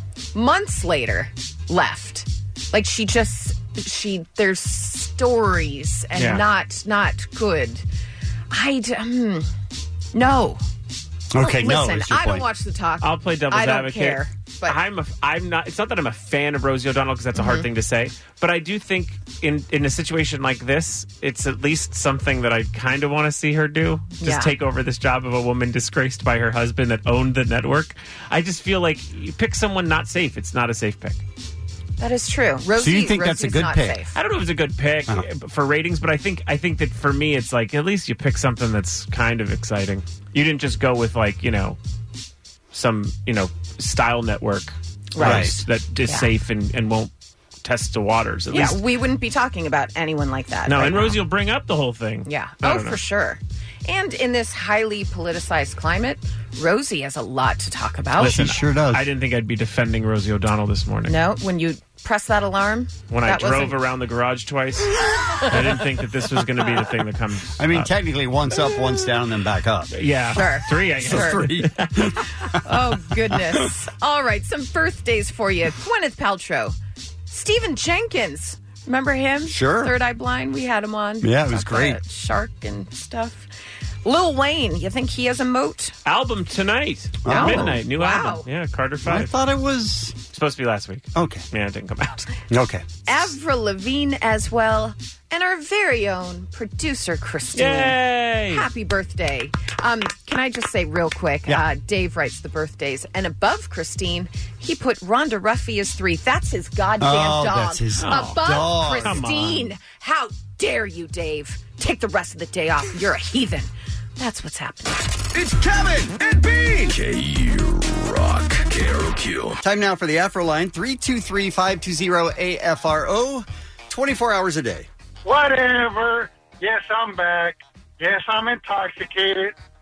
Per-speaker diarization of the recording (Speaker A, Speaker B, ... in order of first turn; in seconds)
Speaker A: 0.3-7.8, 8.5-9.5, 10.1-10.6, 11.4-14.8, 17.4-17.7, 24.2-24.5, 32.0-34.1, 45.1-46.3, 48.5-51.2, 52.3-58.6, 61.1-63.8, 70.4-71.4, 72.6-76.8, 77.3-83.5, 84.0-85.9, 87.3-88.5, 93.1-98.0, 98.5-115.1
Speaker B: 6.2-6.4, 13.0-31.2, 34.1-41.8, 42.7-47.1, 47.6-48.8, 50.7-53.0, 58.2-61.2, 63.1-67.9, 69.9-72.1, 86.0-89.3, 90.3-92.3, 97.5-98.7, 108.0-109.7
Speaker C: 11.3-12.5, 32.8-34.0, 45.2-45.6, 58.2-59.0, 67.6-70.4, 70.9-72.4, 79.5-79.9, 81.2-82.0, 87.2-87.8, 89.0-90.2, 91.2-91.4, 92.5-93.3, 107.0-109.2, 115.3-116.9, 119.6-124.9
Speaker D: 116.8-119.6
Speaker E: 125.2-129.5